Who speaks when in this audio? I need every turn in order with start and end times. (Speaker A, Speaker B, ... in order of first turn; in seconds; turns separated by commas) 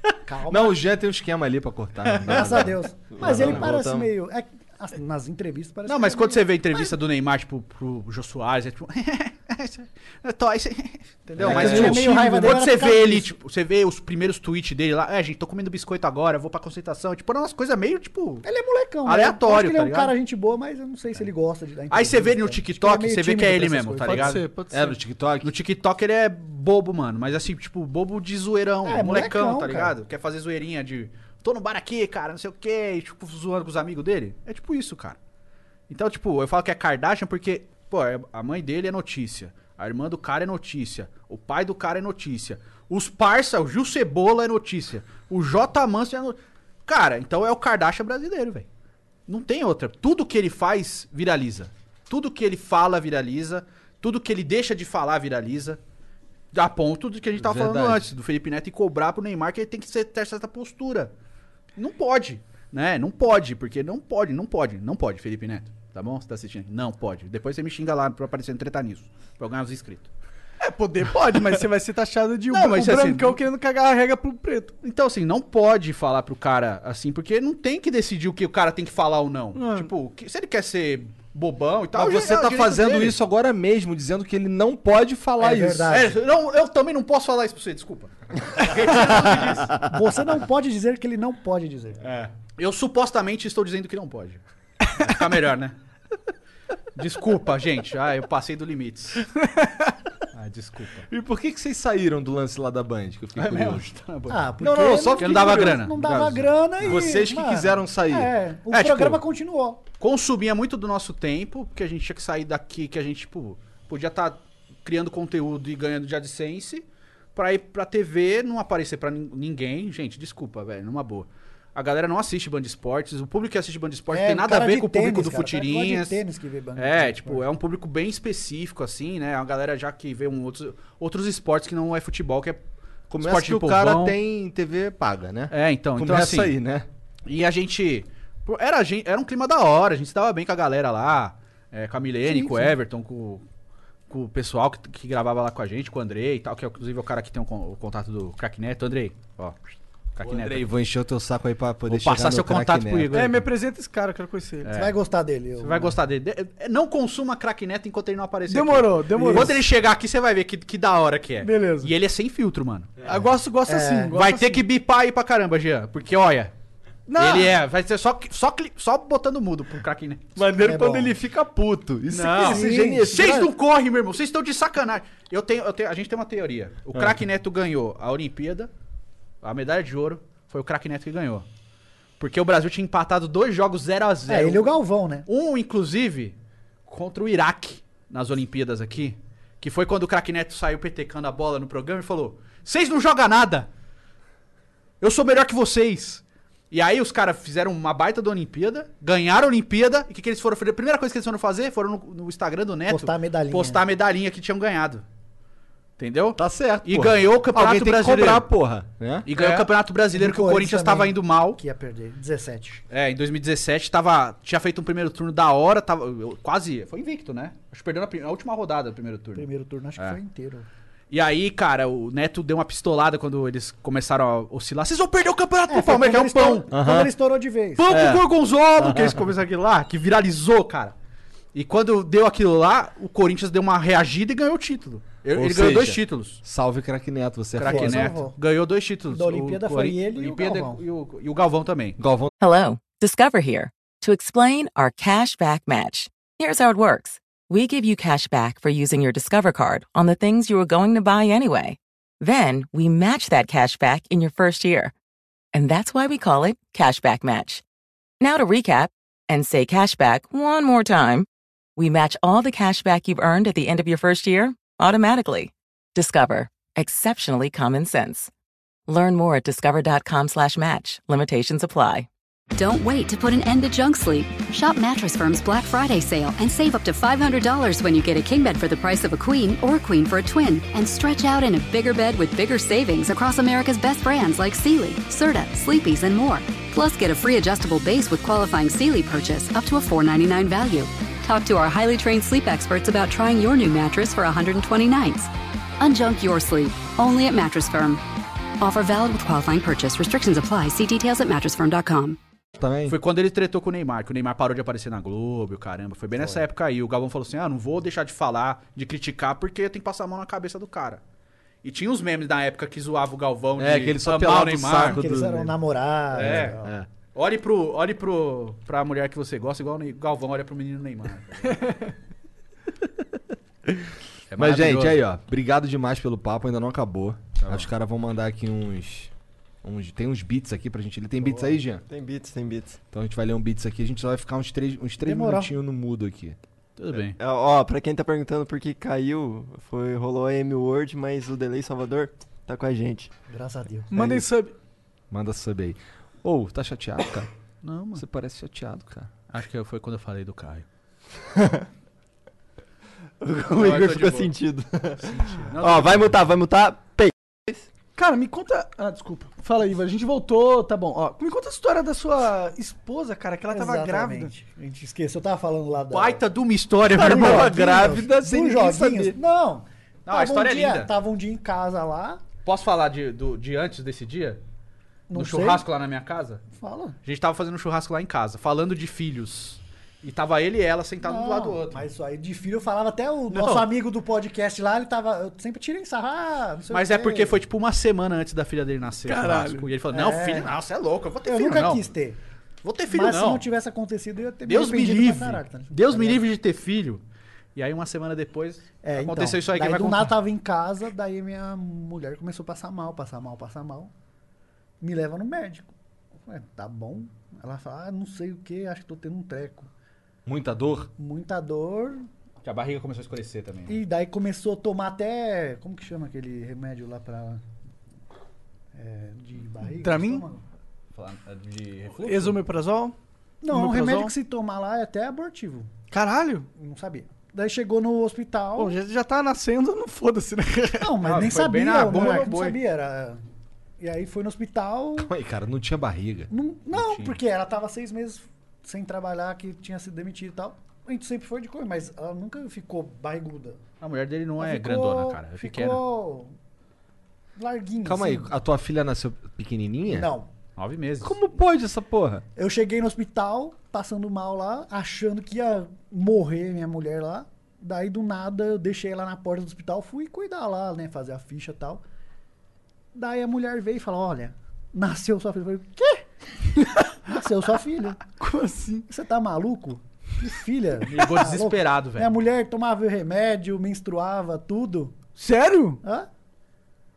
Speaker A: 0.2-0.8, Speaker B: 0.5-4.0, Speaker C: 2.1-2.7, Speaker A: 2.3-6.9, Speaker D: 3.1-4.1, Speaker C: 5.9-18.4, Speaker B: 11.3-12.2, Speaker A: 11.4-13.3, Speaker A: 18.4-24.4, Speaker C: 19.0-20.1, Speaker C: 21.9-24.4, Speaker E: 24.1-25.0, Speaker B: 24.7-25.5, Speaker C: 25.4-35.2, Speaker A: 28.8-29.9, Speaker C: 35.9-48.7, Speaker C: 49.3-55.8, Speaker C: 56.5-61.1, Speaker B: 57.4-58.1, Speaker C: 61.8-70.1, Speaker E: 70.6-74.7, Speaker C: 72.5-73.4, Speaker C: 74.8-83.2, Speaker E: 79.5-79.9, Speaker B: 81.9-86.0, Speaker A: 85.4-86.2, Speaker C: 85.9-89.8, Speaker B: 88.9-89.2, Speaker A: 89.7-92.0, Speaker C: 92.0-95.8, Speaker C: 96.9-99.2, Speaker C: 100.3-101.1, Speaker B: 101.1-103.9, Speaker C: 103.3-106.2, Speaker A: 104.3-109.8, Speaker B: 104.6-108.3, Speaker C: 108.7-109.2, Speaker C: 110.0-126.2, Speaker A: 124.1-127.4, Speaker C: 126.8-132.6, Speaker B: 133.1-136.9, Speaker C: 133.2-134.2, Speaker C: 135.5-136.5, Speaker C: 137.2-143.4, Speaker A: 142.2-142.7, Speaker C: 144.1-149.6, Speaker C: 150.2-150.7, Speaker B: 150.2-153.4, Speaker C: 151.9-153.4, Speaker E: 153.1-154.7, Speaker C: 154.6-154.9, Speaker A: 154.7-156.0, Speaker C: 155.6-162.9, Speaker E: 158.5-159.6, Speaker A: 159.2-159.5, Speaker E: 161.4-161.9, Speaker E: 163.0-164.6, Speaker A: 163.7-164.1, Speaker C: 164.1-166.5, Speaker E: 167.1-167.6, Speaker C: 167.2-170.3, Speaker B: 170.3-173.5, Speaker A: 170.6-171.1, Speaker C: 172.1-178.7, Speaker A: 172.5-173.4, Speaker C: 179.4-181.4, Speaker C: 182.2-184.7, Speaker A: 184.3-185.3, Speaker C: 185.2-186.3, Speaker C: 186.9-193.7, Speaker C: 195.0-205.0, Speaker A: 202.9-203.8, Speaker C: 206.0-208.5, Speaker B: 206.4-209.3, Speaker C: 209.2-211.6, Speaker A: 210.1-212.8, Speaker C: 212.9-219.5, Speaker A: 219.3-220.7, Speaker C: 221.1-226.7, Speaker A: 225.7-227.8, Speaker B: 226.7-227.1, Speaker C: 227.8-230.9, Speaker B: 227.8-229.2, Speaker C: 231.5-236.4, Speaker B: 235.3-238.1, Speaker C: 237.6-242.0, Speaker A: 237.7-238.3, Speaker A: 239.1-240.8, Speaker B: 242.0-242.3, Speaker F: 242.4-254.9, Speaker F: 255.5-257.6, Speaker F: 258.2-268.3, Speaker F: 268.9-272.1, Speaker G: 272.5-295.3, Speaker G: 295.8-298.0, Speaker G: 298.6-302.2, Speaker B: 302.6-302.9, Speaker C: 302.9-311.0, Speaker C: 311.6-315.0, Speaker B: 313.6-315.6, Speaker A: 314.8-316.7, Speaker B: 316.1-316.9, Speaker C: 316.1-316.6, Speaker C: 317.1-321.6, Speaker B: 323.7-329.1, Speaker C: 324.3-325.0, Speaker C: 327.4-327.7, Speaker B: 329.6-331.8, Speaker C: 331.2-331.5, Speaker D: 331.8-332.8, Speaker B: 332.9-336.4, Speaker A: 335.0-335.5, Speaker C: 336.8-337.2, Speaker D: 337.2-343.1, Speaker A: 343.3-343.9, Speaker E: 343.9-344.5, Speaker B: 344.0-344.2, Speaker B: 345.1-347.3, Speaker C: 347.6-348.0, Speaker B: 347.9-349.1, Speaker C: 349.3-350.6, Speaker D: 353.2-357.7, Speaker C: 353.5-354.3, Speaker C: 355.0-356.2, Speaker E: 357.9-364.3, Speaker A: 363.5-366.2, Speaker C: 365.9-367.5, Speaker B: 366.9-369.2, Speaker A: 367.0-372.2, Speaker C: 370.1-370.9, Speaker C: 372.4-374.4, Speaker A: 375.1-375.6, Speaker C: 375.1-376.4, Speaker A: 376.6-377.0, Speaker C: 377.0-381.9, Speaker A: 381.0-387.4, Speaker C: 383.3-383.6, Speaker C: 386.7-391.9, Speaker E: 389.1-389.7, Speaker A: 389.9-390.5, Speaker A: 391.2-392.2, Speaker C: 392.6-393.4, Speaker A: 392.9-396.2, Speaker C: 394.4-397.0, Speaker C: 397.5-400.2, Speaker A: 398.8-403.9, Speaker A: 404.8-405.7, Speaker A: 406.2-409.7, Speaker B: 410.2-410.9, Speaker A: 411.0-412.1, Speaker C: 412.4-413.8, Speaker A: 413.7-417.4, Speaker A: 418.7-420.4, Speaker E: 419.8-420.2, Speaker C: 420.9-422.4, Speaker E: 422.0-422.9, Speaker A: 423.4-425.7, Speaker E: 423.5-424.1, Speaker E: 425.9-426.5, Speaker A: 426.5-428.8, Speaker E: 428.6-430.9, Speaker A: 430.8-433.2, Speaker C: 431.0-432.6, Speaker A: 433.8-435.1, Speaker B: 435.0-436.3, Speaker A: 436.3-443.6, Speaker C: 436.7-437.2, Speaker C: 443.8-445.8, Speaker A: 444.4-446.3, Speaker A: 447.4-448.3, Speaker B: 447.8-450.1, Speaker A: 449.9-450.3, Speaker C: 450.6-451.2, Speaker B: 451.0-452.2, Speaker A: 452.4-461.8, Speaker A: 462.9-466.0, Speaker A: 467.0-468.0, Speaker E: 468.1-468.9, Speaker A: 468.9-474.9, Speaker C: 470.9-472.1, Speaker E: 475.2-475.8, Speaker A: 475.8-476.1